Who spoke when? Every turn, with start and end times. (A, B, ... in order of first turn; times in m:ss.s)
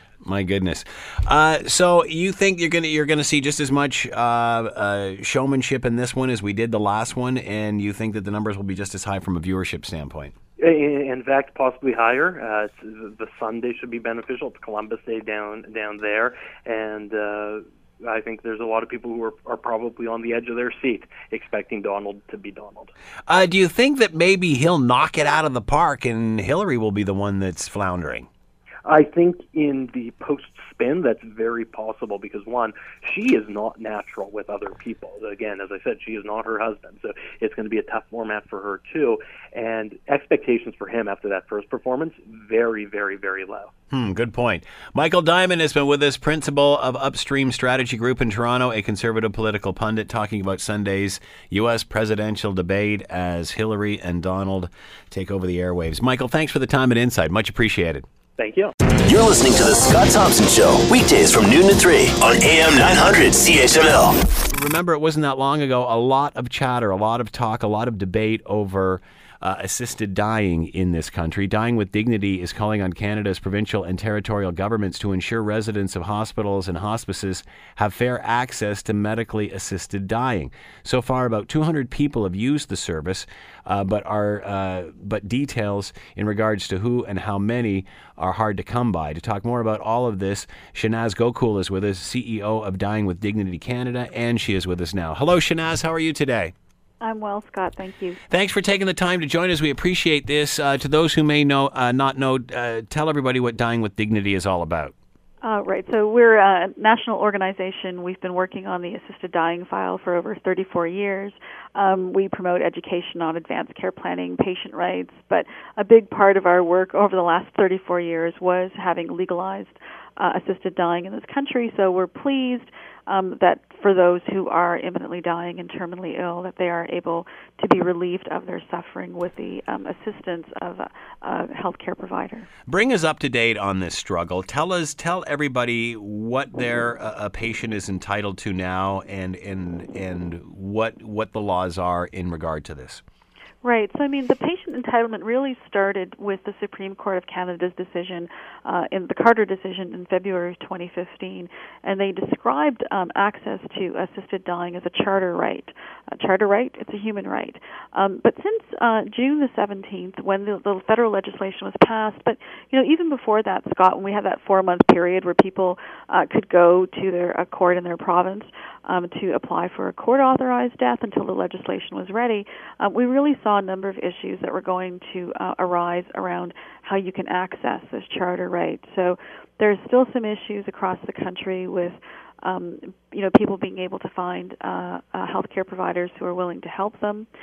0:00.2-0:10.3 A
0:10.6-0:22.9 B
0:23.3-0:28.3 A
0:28.8-0:43.7 B
0:43.9-0:58.0 A
0:58.4-0:58.7 B
0:59.0-1:04.2 C
1:04.5-1:36.5 A
1:37.0-1:38.2 D
1:38.3-1:44.9 A
1:45.4-2:12.5 D
2:12.7-2:23.0 A
2:23.6-3:07.3 D